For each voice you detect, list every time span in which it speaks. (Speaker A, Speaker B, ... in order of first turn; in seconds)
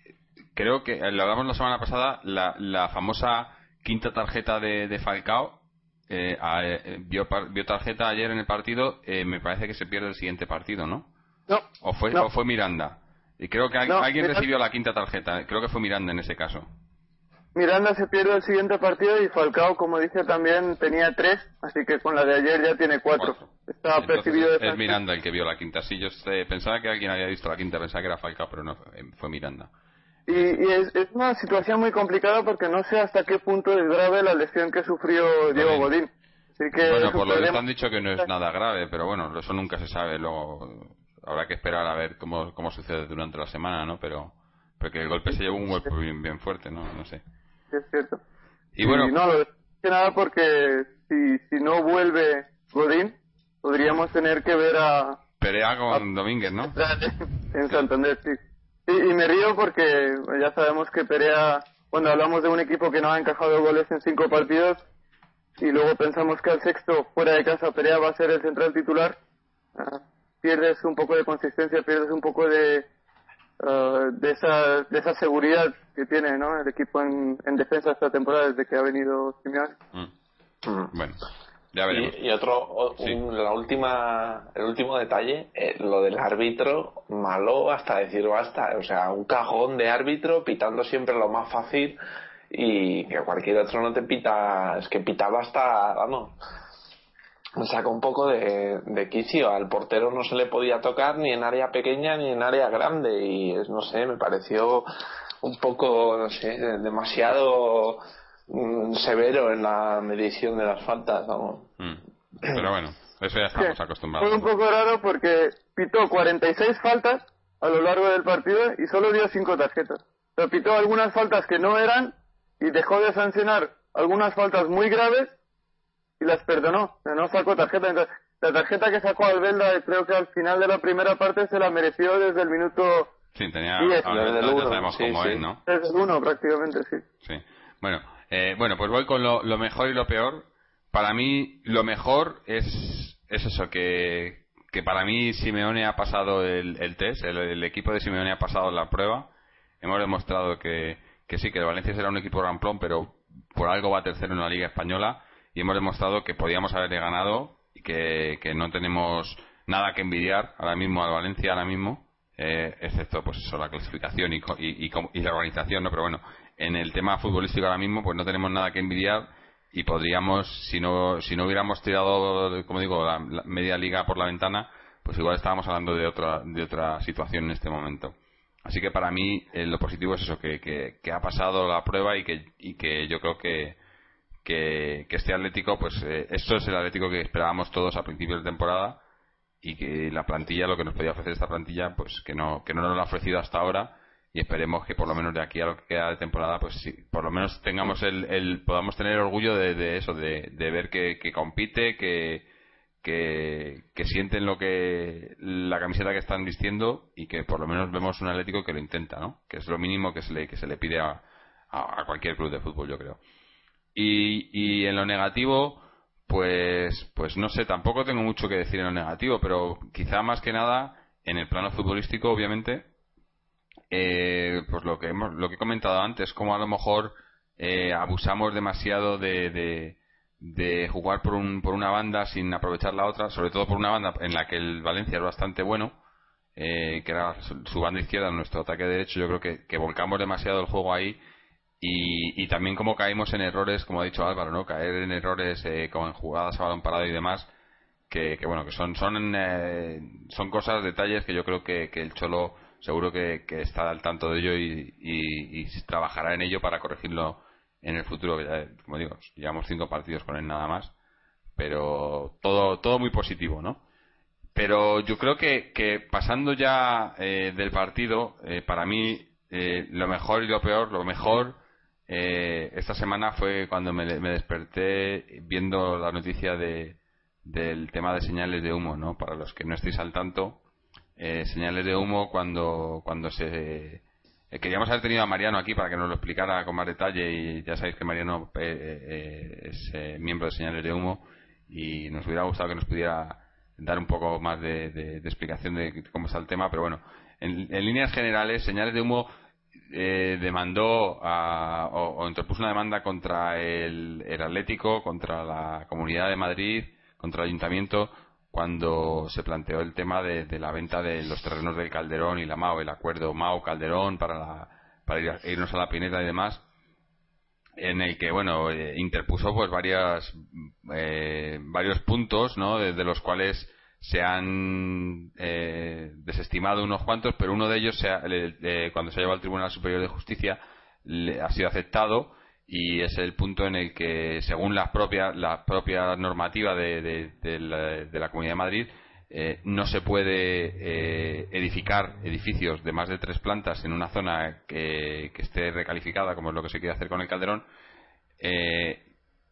Speaker A: 0.5-11.1, 11.8-16.7, 23.1-29.7, 30.3-30.6, 35.5-35.9, 36.8-47.2, 48.8-49.1, 55.4-56.8, 80.9-81.2, 81.7-82.2, 111.8-114.5, 133.3-135.6, 137.2-149.3, 149.8-183.8, 184.4-189.0, 189.6-202.4, 203.0-213.2, 213.9-222.8, 223.9-235.9, 236.6-241.2, 241.8-247.5, 248.1-260.9, 261.6-263.8, 264.5-280.6, 281.2-299.3, 299.9-316.6, 317.8-347.6, 348.4-349.0
Speaker B: 11.5-12.3, 13.9-14.4, 17.5-25.0, 30.3-37.6, 47.7-48.2, 48.8-55.2, 56.7-64.8, 65.6-69.2, 69.8-72.8, 73.6-79.7, 113.5-125.3, 126.2-133.1, 133.8-134.1, 135.7-137.0
Speaker C: 80.6-80.9, 81.9-92.0, 92.5-96.4, 97.6-104.8, 105.4-111.7, 134.1-135.4